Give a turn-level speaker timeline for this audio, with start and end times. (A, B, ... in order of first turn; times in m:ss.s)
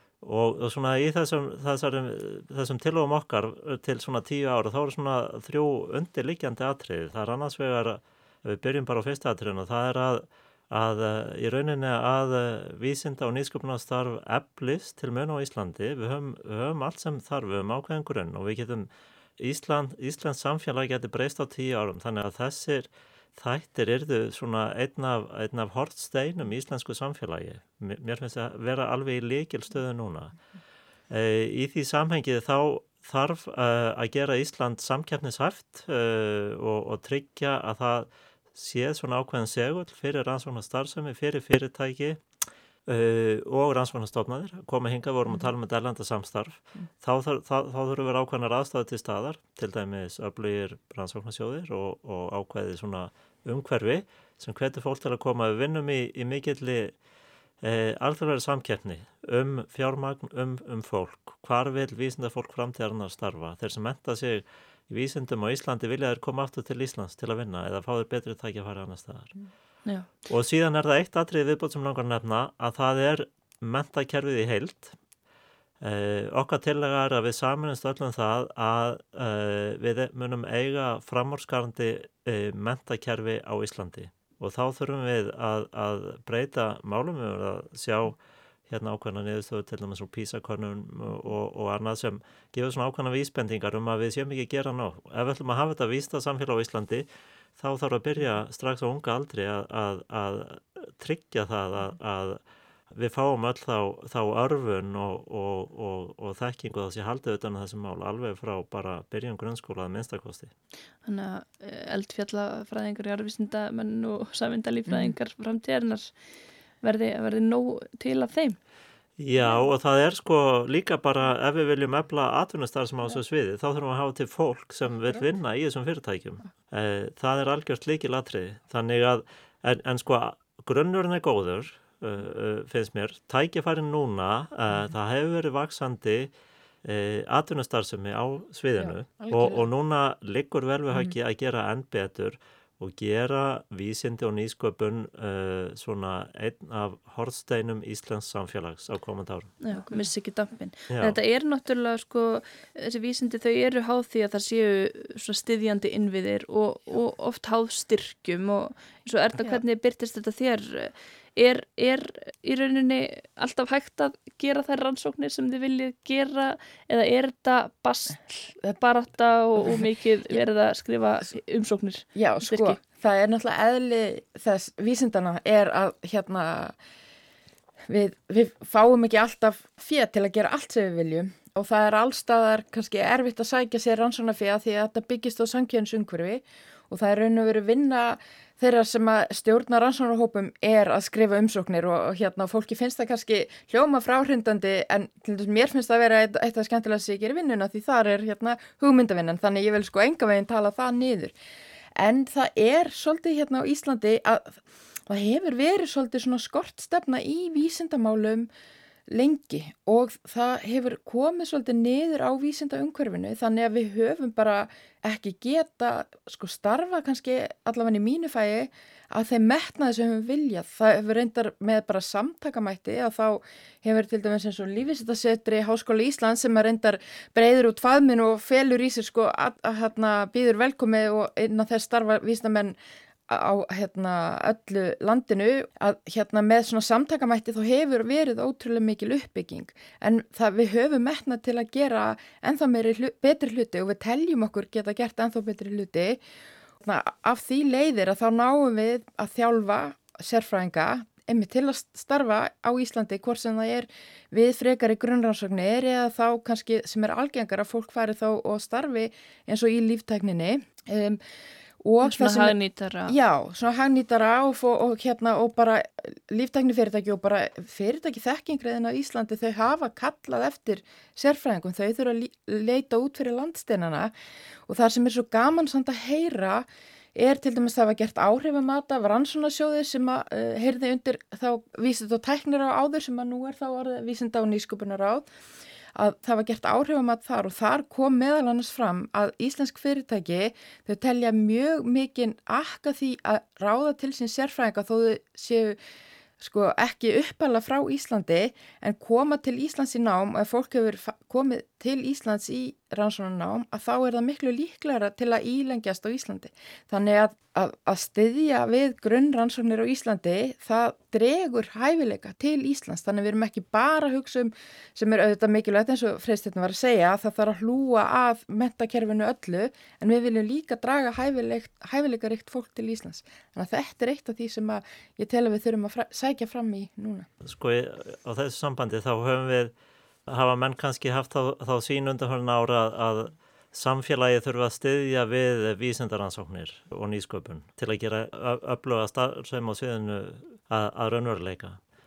0:00.2-0:30.4 A
0:31.1-0:42.2 A
0:42.9-0:57.0 A
0:57.6-1:09.3 A
1:10.2-1:15.0 A
1:15.8-1:37.1 A
1:37.6-1:50.5 A
1:51.0-1:56.1 B
1:54.9-1:55.1 C
1:56.8-1:58.6 B
1:59.2-2:16.3 A
2:16.8-2:29.6 A
2:18.8-2:19.6 C
2:29.6-2:52.8 B
2:29.7-2:30.0 C
2:30.9-2:31.2 A
2:52.2-2:56.8 C
2:57.9-3:21.3 C
3:22.0-3:28.5 C
3:29.1-3:52.8 C
3:53.3-4:06.2 C
4:06.8-4:21.2 C
4:21.8-4:34.1 C
4:22.0-4:23.2 B
4:34.7-4:45.3 C
4:46.0-4:55.8 C
4:56.4-5:27.3 C
5:27.4-5:29.7 A
5:30.3-5:41.8 A